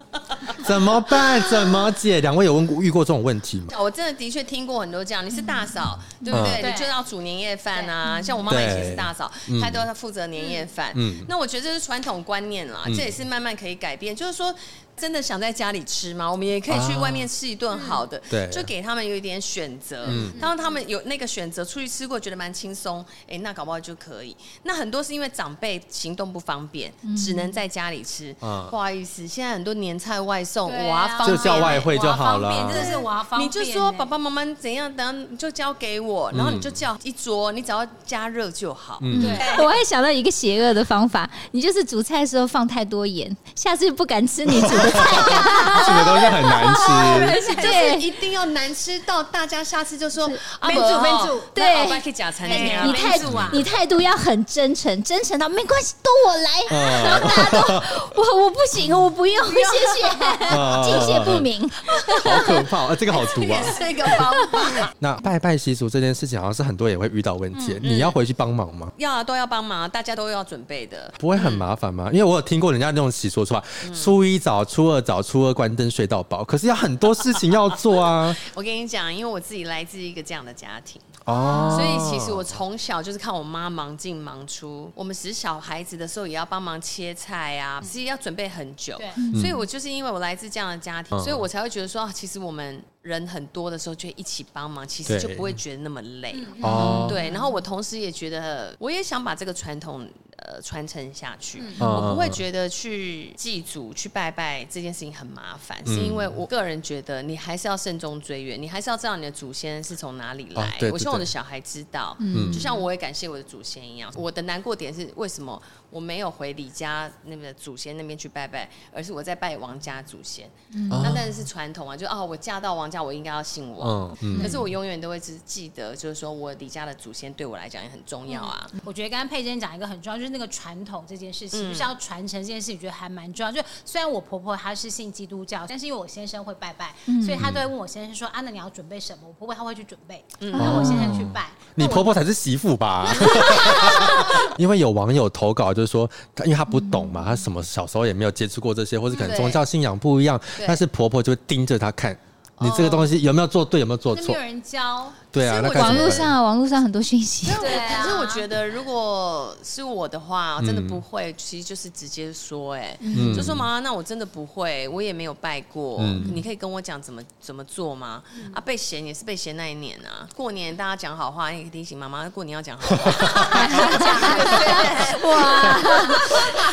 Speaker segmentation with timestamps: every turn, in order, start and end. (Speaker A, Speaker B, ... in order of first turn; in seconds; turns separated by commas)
Speaker A: 0.4-1.3, Speaker B: 0.5-3.7, Speaker A: 3.7-31.9, Speaker C: 5.4-6.5, Speaker B: 6.3-6.7, Speaker D: 6.5-6.9, Speaker C: 8.1-8.4, Speaker B: 8.5-9.9, Speaker D: 10.4-10.6, Speaker B: 10.9-11.3, Speaker B: 16.7-17.3, Speaker D: 17.7-18.0, Speaker B: 18.3-18.7, Speaker D: 20.0-20.8, Speaker B: 20.1-20.4, Speaker C: 27.0-27.6, Speaker B: 28.4-28.8, Speaker D: 30.7-34.1, Speaker B: 31.2-32.9, Speaker A: 32.7-39.7, Speaker B: 36.3-36.8, Speaker B: 39.0-39.4, Speaker C: 39.1-48.1, Speaker D: 39.1-39.7, Speaker B: 44.5-47.5, Speaker D: 46.0-48.0, Speaker A: 46.8-53.5, Speaker C: 50.3-62.7, Speaker D: 50.6-51.5, Speaker D: 52.4-53.6, Speaker B: 53.3-53.7, Speaker B: 56.7-58.0, Speaker A: 59.5-60.4, Speaker D: 59.7-60.4, Speaker B: 60.5-61.5, Speaker B: 62.2-64.2, Speaker A: 63.1-64.9, Speaker B: 64.9-68.9, Speaker D: 67.5-67.8, Speaker A: 67.8-68.2, Speaker A: 69.0-71.7, Speaker B: 71.2-78.4, Speaker A: 73.8-74.1, Speaker A: 78.1-96.5, Speaker B: 81.2-82.5, Speaker D: 81.3-81.9, Speaker C: 89.2-89.6, Speaker B: 89.3-89.6, Speaker B: 91.1-91.5, Speaker B: 95.1-95.6, Speaker D: 96.3-97.5, Speaker B: 96.6-97.2, Speaker C: 96.6-97.2, Speaker A: 97.0-128.7, Speaker D: 101.6-101.9, Speaker B: 101.8-102.5, Speaker B: 105.9-106.4, Speaker B: 110.6-111.3, Speaker C: 112.2-112.9, Speaker B: 112.3-112.7, Speaker C: 120.7-121.2, Speaker B: 120.9-121.5, Speaker B: 123.8-124.6, Speaker C: 124.3-124.6, Speaker D: 128.3-142.2, Speaker A: 131.5-131.9, Speaker C: 137.1-137.5, Speaker B: 137.3-137.7, Speaker A: 140.4-140.9, Speaker C: 140.5-141.3, Speaker B: 140.6-154.4, Speaker A: 143.2-144.2, Speaker C: 143.8-144.3, Speaker C: 146.7-147.5, Speaker A: 149.1-149.6, Speaker A: 150.6-150.8, Speaker A: 152.6-153.2, Speaker D: 154.1-155.2, Speaker B: 155.3-156.3, Speaker A: 155.4-156.3, Speaker C: 155.7-157.9, Speaker A: 157.4-176.4, Speaker D: 157.6-158.4, Speaker B: 160.6-161.0, Speaker C: 163.0-163.5, Speaker B: 163.1-163.7, Speaker B: 166.0-166.4, Speaker C: 166.2-166.5, Speaker D: 168.3-168.6, Speaker B: 173.0-173.8, Speaker D: 173.4-176.5, Speaker C: 173.6-176.4